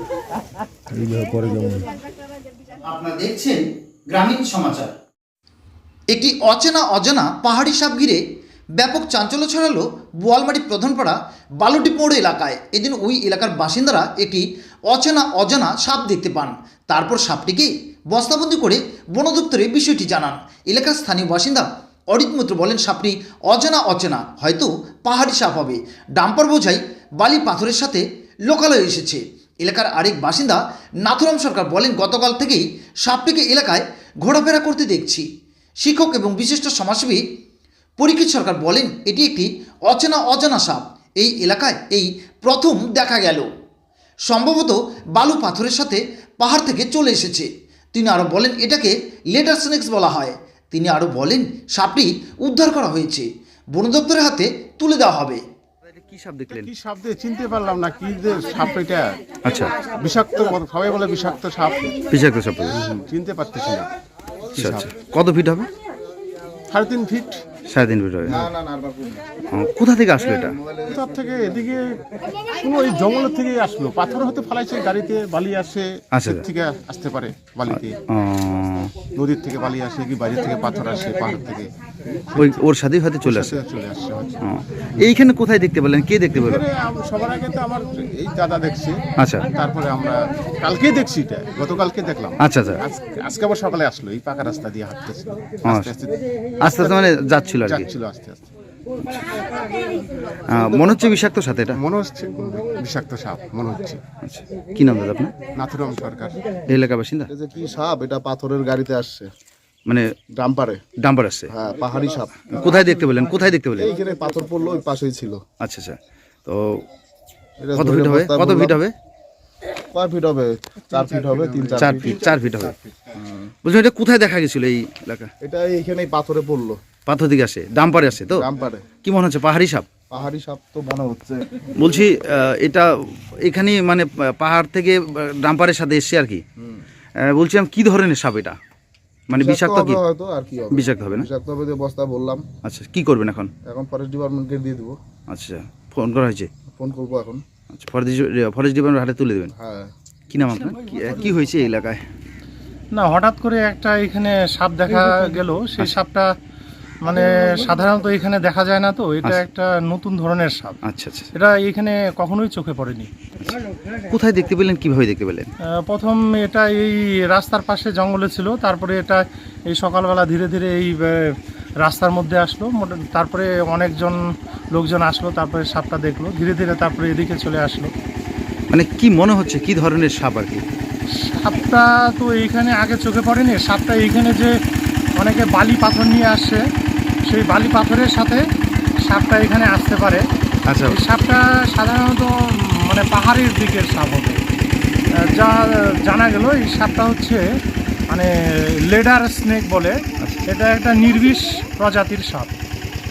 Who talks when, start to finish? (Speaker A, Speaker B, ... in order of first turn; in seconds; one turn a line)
Speaker A: 1.0-1.7
Speaker B: 2.9-5.0
Speaker B: 6.1-8.2
Speaker B: 8.8-35.2
Speaker B: 35.8-37.2
Speaker B: 38.0-43.5
Speaker B: 44.3-55.4
Speaker C: 55.9-56.7
Speaker D: 56.5-59.2
Speaker C: 59.4-59.7
Speaker D: 60.0-62.0
Speaker C: 62.1-63.0
Speaker D: 62.9-63.9
Speaker C: 64.6-65.7
Speaker D: 64.6-64.9
Speaker D: 66.7-67.4
Speaker C: 67.7-68.4
Speaker A: 68.3-69.2
Speaker C: 69.5-70.5
Speaker A: 70.5-70.9
Speaker D: 70.9-72.0
Speaker D: 72.5-78.0
Speaker C: 76.1-76.4
Speaker C: 77.7-79.0
Speaker D: 79.1-81.7
Speaker C: 82.3-83.5
Speaker D: 83.2-84.4
Speaker C: 84.4-86.7
Speaker D: 86.3-89.0
Speaker C: 89.2-89.5
Speaker D: 89.5-96.1
Speaker C: 92.4-92.8
Speaker C: 95.7-96.0
Speaker C: 96.6-97.9
Speaker D: 97.7-98.5
Speaker C: 100.5-101.8
Speaker D: 101.8-104.0
Speaker C: 104.2-105.3
Speaker D: 105.5-106.4
Speaker C: 106.7-107.3
Speaker A: 107.3-109.3
Speaker A: 110.4-110.8
Speaker C: 111.0-111.5
Speaker A: 111.5-112.6
Speaker C: 112.5-113.9
Speaker A: 113.8-115.4
Speaker C: 115.6-116.8
Speaker A: 117.6-118.8
Speaker C: 117.8-118.9
Speaker A: 119.9-122.1
Speaker D: 121.0-123.1
Speaker C: 121.8-122.8
Speaker A: 123.2-123.5
Speaker C: 123.6-125.3
Speaker A: 125.4-126.8
Speaker C: 127.1-128.5
Speaker A: 128.4-128.9
Speaker C: 129.0-129.9
Speaker A: 130.1-131.6
Speaker C: 131.8-132.9
Speaker C: 133.4-136.4
Speaker C: 137.2-138.6
Speaker C: 139.3-140.0
Speaker A: 139.3-142.4
Speaker C: 140.7-141.3
Speaker C: 142.7-143.5
Speaker A: 143.7-145.0
Speaker C: 145.3-146.5
Speaker A: 146.8-147.4
Speaker C: 147.7-149.5
Speaker A: 149.6-149.9
Speaker C: 150.3-152.0
Speaker E: 152.9-156.3
Speaker E: 157.0-160.8
Speaker C: 160.8-161.3
Speaker E: 161.3-163.1
Speaker C: 164.1-165.5
Speaker E: 165.8-171.3
Speaker E: 171.8-174.2
Speaker E: 174.7-177.9
Speaker C: 178.7-180.6
Speaker E: 181.2-184.6
Speaker E: 185.2-186.6
Speaker E: 187.3-188.4
Speaker E: 189.1-190.2
Speaker C: 190.7-191.0
Speaker E: 190.9-194.4
Speaker E: 195.2-197.4
Speaker E: 198.9-202.5